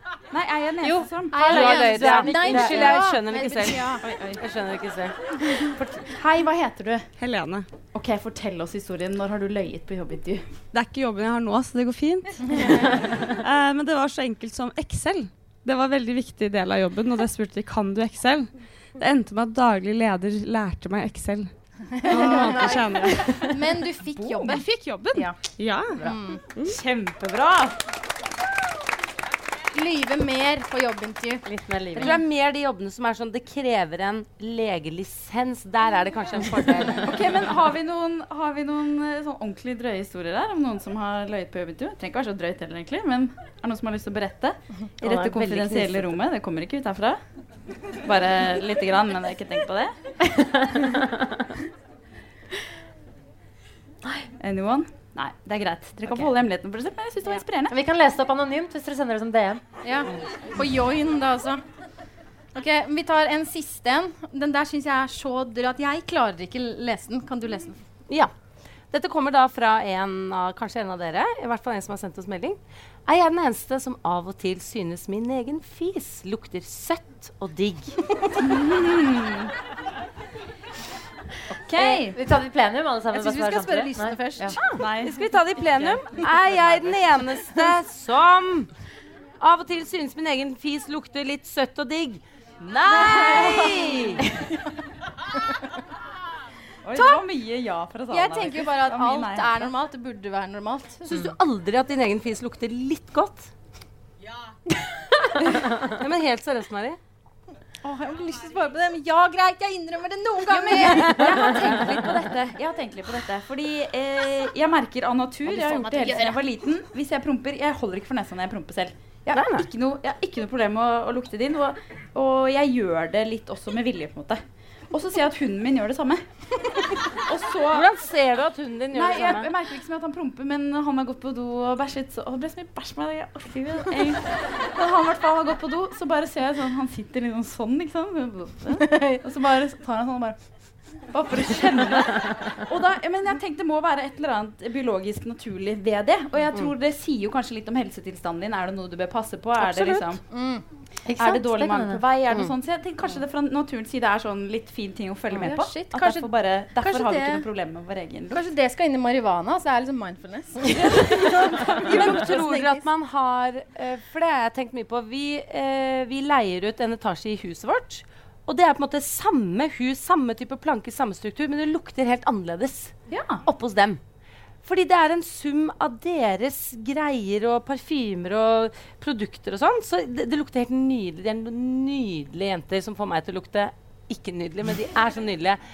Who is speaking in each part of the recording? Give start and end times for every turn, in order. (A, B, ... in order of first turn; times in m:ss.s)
0:00.3-0:01.4 A
0:00.8-0:03.0 B
0:01.3-0:04.0 C
0:01.4-0:05.1 D
0:04.0-0:04.4 A
0:05.8-0:07.1 A
0:07.2-0:07.7 E
0:07.9-0:10.4 A
0:10.7-0:12.6 E
0:13.3-0:23.3 E
0:22.0-0:22.8 C
0:22.1-0:23.4 A
0:23.4-0:26.4 C
0:24.2-0:24.6 A
0:24.5-0:26.0 E
0:26.6-0:27.8 A
0:29.7-0:32.1 C
0:31.4-0:32.2 B
0:32.0-0:37.2 D
0:37.0-0:47.2 A
0:45.0-0:46.2 D
0:47.9-0:50.0 A
0:50.4-0:51.2 B
0:54.4-0:57.8 A
0:57.7-0:59.6 B
0:59.8-1:01.6 C
1:02.5-1:07.8 C
1:08.9-1:18.1 D
1:18.4-1:19.5 A
1:21.5-1:22.2 A
1:21.7-1:24.6 B
1:23.1-1:24.6 C
1:24.6-1:28.7 D
1:24.8-1:25.3 A
1:29.4-1:32.2 D
1:32.6-1:34.2 A
1:32.7-1:33.8 C
1:32.9-1:34.2 D
1:36.8-1:39.7 A
1:36.9-1:37.2 C
1:38.1-1:41.0 C
1:41.0-1:43.5 D
1:41.1-1:41.3 B
1:45.8-1:47.0 D
1:47.8-1:51.9 C
1:50.5-2:07.9 A
1:50.7-1:51.4 D
1:55.5-1:56.4 C
1:59.3-1:59.7 D
2:07.7-2:09.5 D
2:08.9-2:30.3 A
2:18.9-2:19.2 C
2:29.6-2:30.1 B
2:29.8-2:30.6 C
2:31.0-2:32.0 B
2:31.1-2:38.4 A
2:35.3-2:37.4 C
2:38.3-2:42.8 C
2:41.9-2:54.0 D
2:53.1-2:53.4 A
2:54.6-3:05.6 D